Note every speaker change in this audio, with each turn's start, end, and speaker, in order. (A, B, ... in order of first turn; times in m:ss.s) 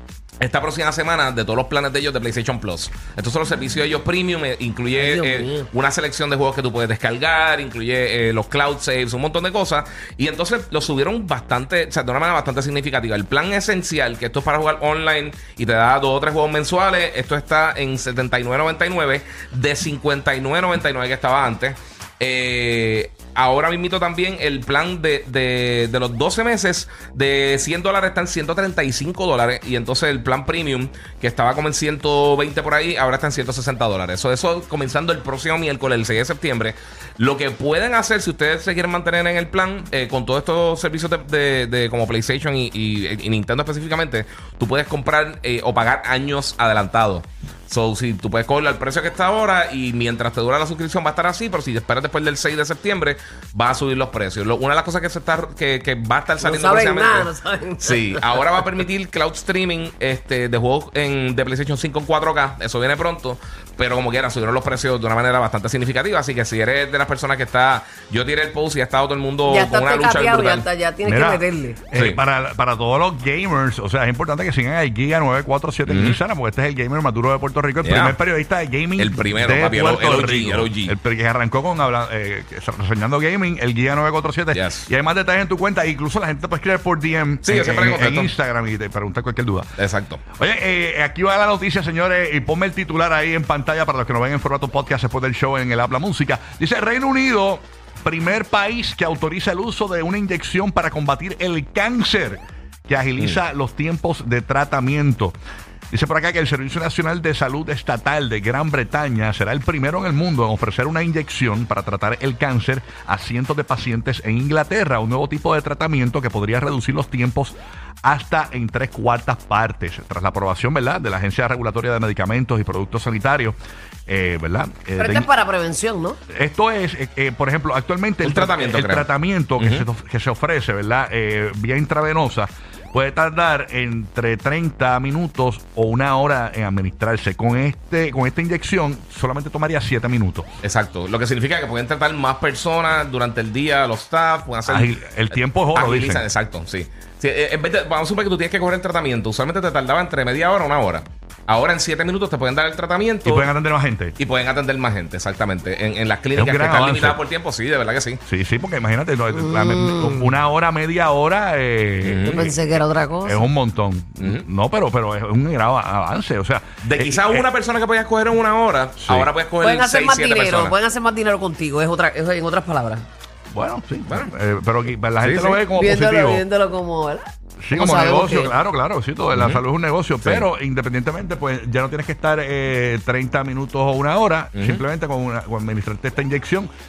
0:00.4-1:10.7 A
0:04.9-0:05.7 B
0:56.4-0:58.2 B
1:09.5-1:11.8 B
1:11.0-1:29.7 C
1:11.9-1:12.2 A
1:15.9-1:16.2 A
1:17.8-1:18.2 A
1:19.0-1:20.9 A
1:24.5-1:24.9 A
1:27.4-1:28.3 A
1:29.8-1:30.2 A
1:30.4-1:45.4 C
1:45.9-2:03.6 C
2:04.1-2:05.3 C
2:05.0-2:06.2 B
2:06.3-2:20.5 C
2:08.2-2:09.8 A
2:20.6-2:33.5 A
2:24.6-2:26.3 C
2:33.2-2:34.1 C
2:34.2-2:38.2 A
2:36.3-2:37.2 C
2:38.2-2:42.6 C
2:39.3-2:40.3 B
2:42.0-2:42.8 A
2:42.3-2:43.4 B
2:43.2-2:47.5 C
2:44.2-2:44.4 A
2:46.8-2:50.7 A
2:49.0-2:49.3 C
2:49.6-2:53.0 B
2:53.5-2:56.4 C
2:54.1-2:54.3 A
2:55.2-2:55.6 A
2:55.7-2:58.5 B
2:57.6-3:06.7 C
2:59.3-2:59.6 A
3:00.2-3:00.5 A
3:04.5-3:04.8 A